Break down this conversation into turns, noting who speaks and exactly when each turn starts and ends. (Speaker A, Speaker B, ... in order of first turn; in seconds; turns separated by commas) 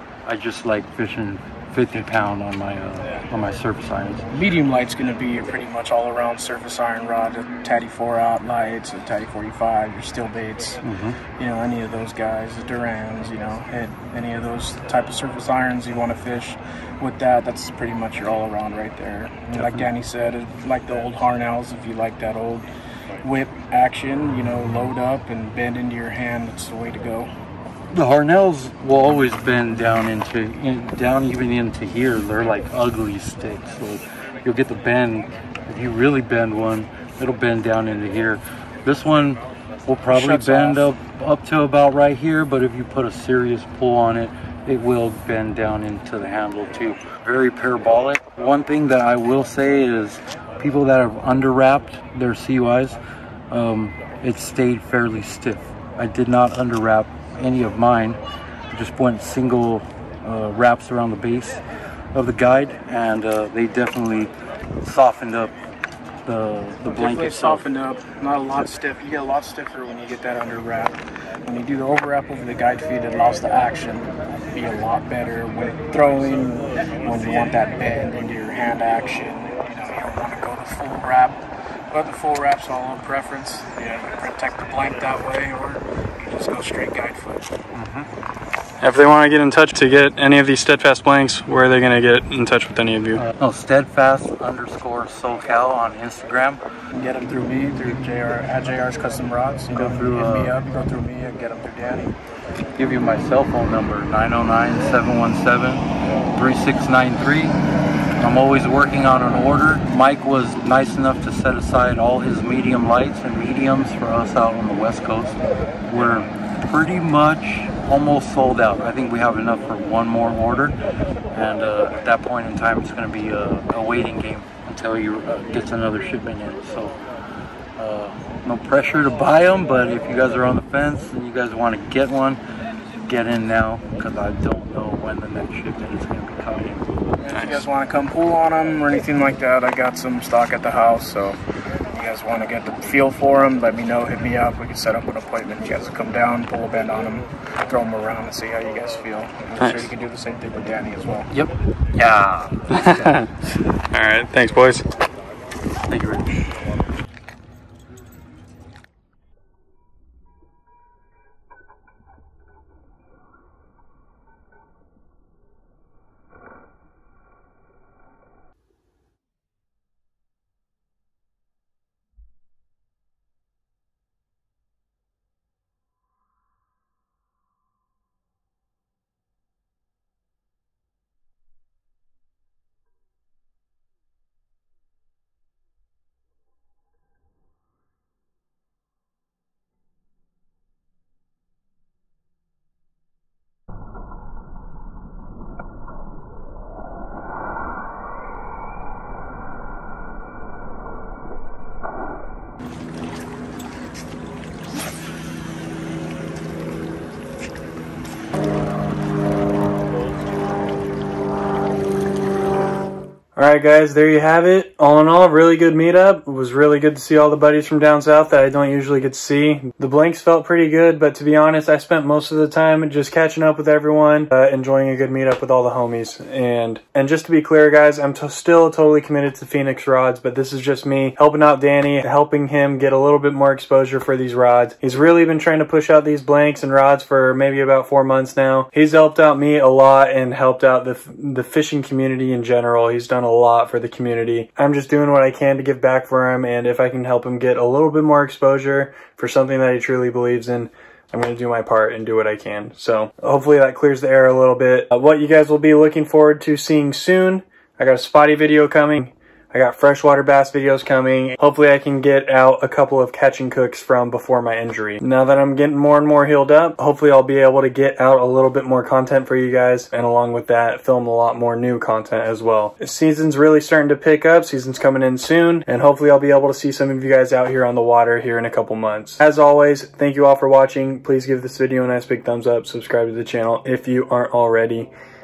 Speaker A: 0.2-4.2, Speaker B: 4.3-10.8, Speaker A: 10.8-11.2, Speaker B: 11.4-22.7, Speaker A: 19.5-19.9, Speaker B: 23.2-27.3, Speaker A: 27.9-53.0, Speaker B: 40.1-40.9, Speaker A: 53.5-58.2, Speaker A: 58.7-61.6, Speaker A: 62.1-65.5, Speaker A: 66.2-67.7, Speaker B: 66.9-81.4, Speaker B: 81.9-87.5, Speaker A: 87.7-88.1, Speaker C: 88.8-93.2, Speaker A: 93.2-96.6, Speaker B: 96.9-102.2, Speaker A: 99.7-100.6, Speaker A: 102.8-107.6, Speaker A: 108.2-120.8, Speaker A: 121.3-127.0, Speaker A: 127.8-132.4, Speaker A: 133.0-136.9, Speaker B: 137.2-141.4, Speaker C: 137.3-137.6, Speaker B: 141.9-151.3, Speaker C: 149.6-149.9, Speaker A: 151.3-152.6, Speaker C: 152.7-153.3, Speaker C: 153.9-154.8, Speaker A: 155.8-156.4, Speaker C: 213.4-284.9